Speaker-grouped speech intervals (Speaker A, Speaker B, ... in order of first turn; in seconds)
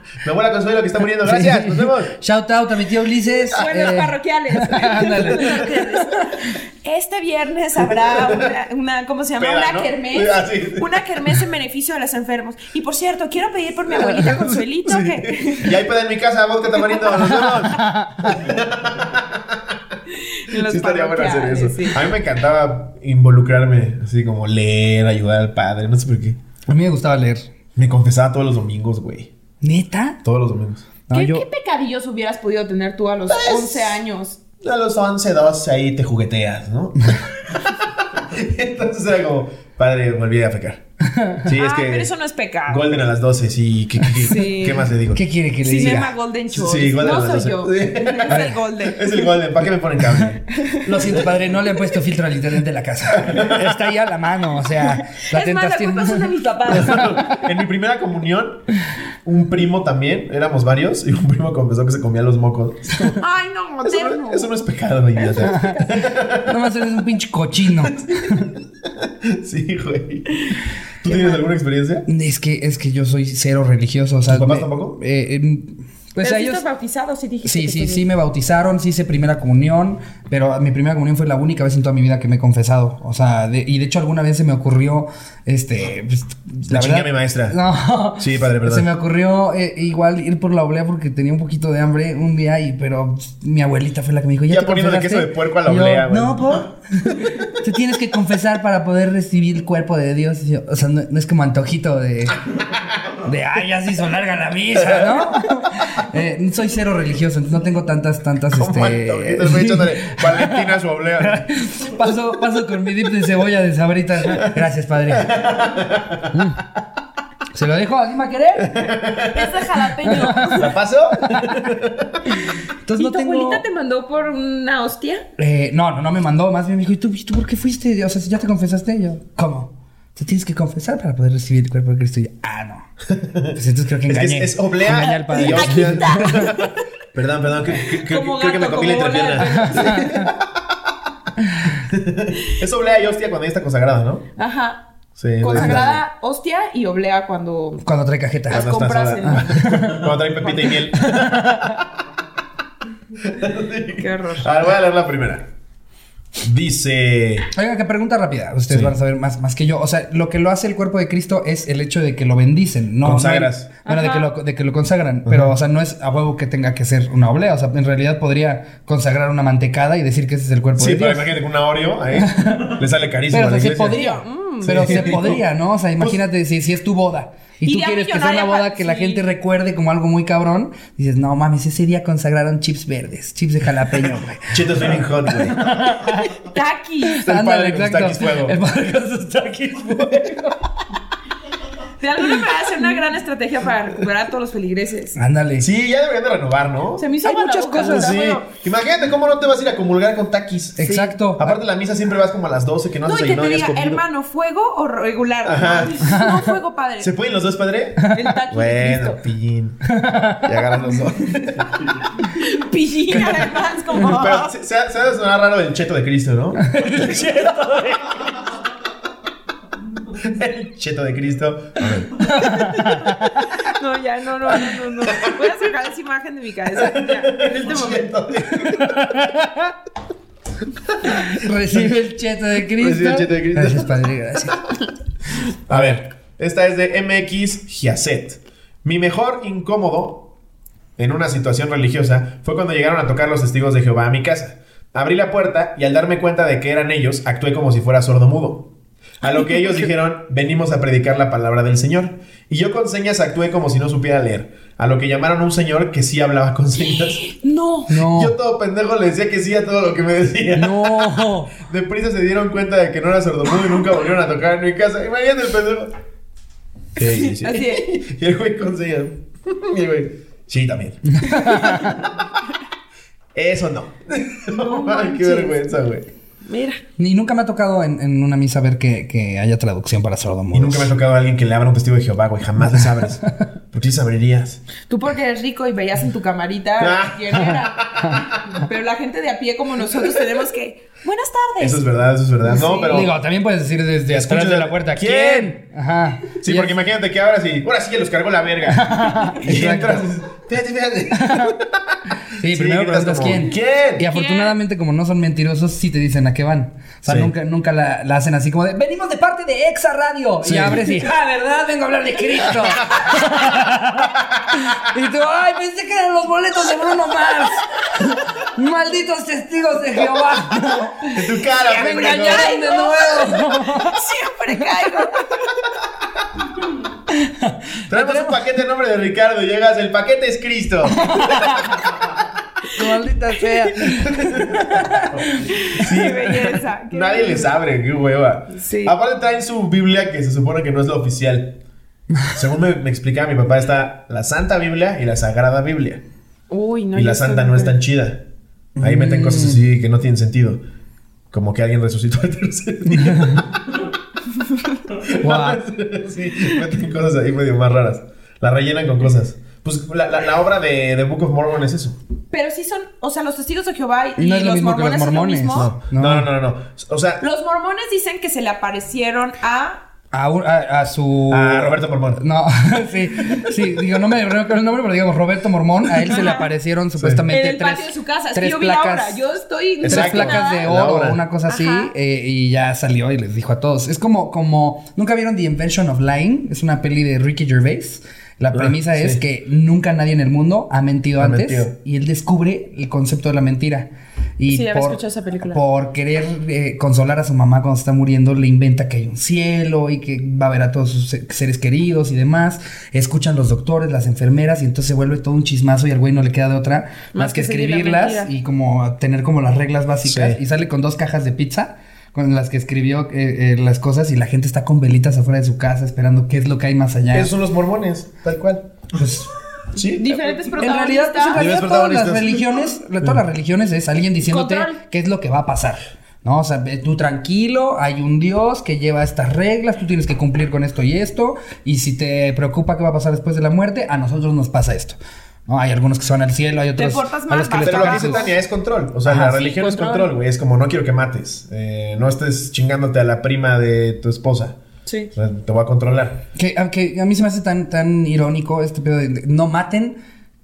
Speaker A: 0.2-2.1, 7.8-8.5, 9.4-11.3, 14.2-19.9, 20.5-26.4, 27.8-29.3, 30.2-30.9, 33.3-34.0, 34.6-40.8, 41.4-42.1, 42.7-45.2, 46.5-51.3, 53.1-53.7, 56.7-58.6, 59.2-63.2, 63.8-66.5, 67.8-70.4, 71.0-72.1, 74.3-75.0, 86.7-87.5, 88.2-88.9, 94.5-96.6, 97.2-97.4, 104.8-105.2, 108.5-111.5, 114.2-116.4, 118.6-119.7, 120.5-122.4, 133.1-140.9, 141.8-144.2, 145.2-146.0, 148.5-151.8, 153.2-155.5, 156.4-157.5, 158.7-158.9, 163.0-163.7, 165.2-165.5, 170.8-174.0, 174.6-175.4, 184.5-185.8, 187.2-188.6, 195.6-197.0, 197.8-204.0, 205.4-206.0, 207.0-209.8, 210.4-212.1, 214.0-217.4, 220.0-222.5, 225.1-225.5, 226.7-229.3, 231.0-232.0, 232.7-234.0, 235.7-240.3, 241.0-248.7, 249.2-257.2, 257.9-265.9, 267.0-271.9, 273.3-276.1, 280.5-284.6, 286.8-288.6, 291.6-293.1, 294.1-295.6, 296.4-304.1, 307.1-307.3, 310.4-310.8, 321.1-322.6, 327.9-332.2, 334.2-335.2, 335.8-341.6, 342.3-346.0, 346.9-348.2, 348.8-350.6, 351.3-353.9, 354.9-362.0, 365.5-367.2, 371.3-372.2, 377.0-377.3, 379.8-381.2, 388.5-389.2, 391.2-391.7, 410.0-410.4, 417.1-418.7, 419.8-420.5, 421.3-423.2, 437.6-444.6, 445.1-446.2
Speaker B: 1.2-6.4, 17.6-18.5, 26.7-27.5, 29.6-30.2, 31.1-31.4, 41.0-41.5, 45.1-46.1, 48.3-48.5, 50.8-57.2, 65.4-65.8, 66.4-68.5, 72.1-76.6, 77.4-102.5, 103.2-110.6, 111.2-115.3, 116.3-116.7, 117.5-119.0, 120.0-120.7, 122.3-123.7, 125.4-132.8, 133.5-136.5, 139.5-140.2, 141.4-141.8, 145.5-145.9, 147.8-148.7, 149.2-150.1, 150.6-151.8, 157.5-171.3, 172.2-172.8, 173.3-186.3, 187.0-190.7, 195.2-195.7, 197.2-198.2, 200.8-201.6, 206.1-206.5, 209.9-210.5, 216.6-218.3, 222.2-223.6, 228.7-229.7, 231.0-234.6, 235.7-236.0, 257.9-258.3, 260.5-261.5, 271.1-272.0, 277.0-280.9, 282.7-283.3, 288.0-288.3, 292.9-296.8, 298.7-300.0, 301.1-301.5, 302.3-324.0, 327.1-328.4, 331.0-331.8, 332.8-335.5, 348.8-349.6, 352.9-353.4, 355.2-355.6, 364.2-366.3, 370.1-379.2, 379.9-417.3, 418.9-419.3, 420.6-438.3, 439.1-439.4, 446.4-450.0
Speaker C: 3.5-15.8, 16.9-17.3, 20.2-22.0, 31.1-34.4, 41.5-43.0, 44.2-44.9, 45.6-49.4, 50.5-50.9, 55.1-57.1, 63.1-64.5, 65.2-66.1, 70.3-71.4, 76.2-78.1, 119.3-120.8, 123.0-125.2, 135.0-136.7, 137.7-140.3, 144.4-144.9, 145.4-147.8, 148.5-149.4, 153.9-154.6, 163.8-164.3, 173.9-175.3, 177.7-179.2, 186.0-187.2, 192.0-195.2, 197.0-198.5, 203.1-207.1, 208.1-209.2, 212.3-214.5, 222.4-223.0, 223.6-228.1, 249.2-249.9, 256.9-257.9, 267.0-267.9, 274.5-275.7, 276.5-276.8, 284.9-288.1, 288.6-291.8, 292.5-293.0, 304.1-304.5, 321.6-325.7, 332.7-334.0, 335.5-337.5, 338.5-338.9, 346.5-347.8, 362.3-365.7, 367.2-369.8, 376.1-376.5, 377.3-380.7, 381.5-381.9, 394.5-395.6, 407.1-408.3, 419.8-421.5, 424.2-424.8, 436.8-438.4, 439.4-440.1, 444.9-445.1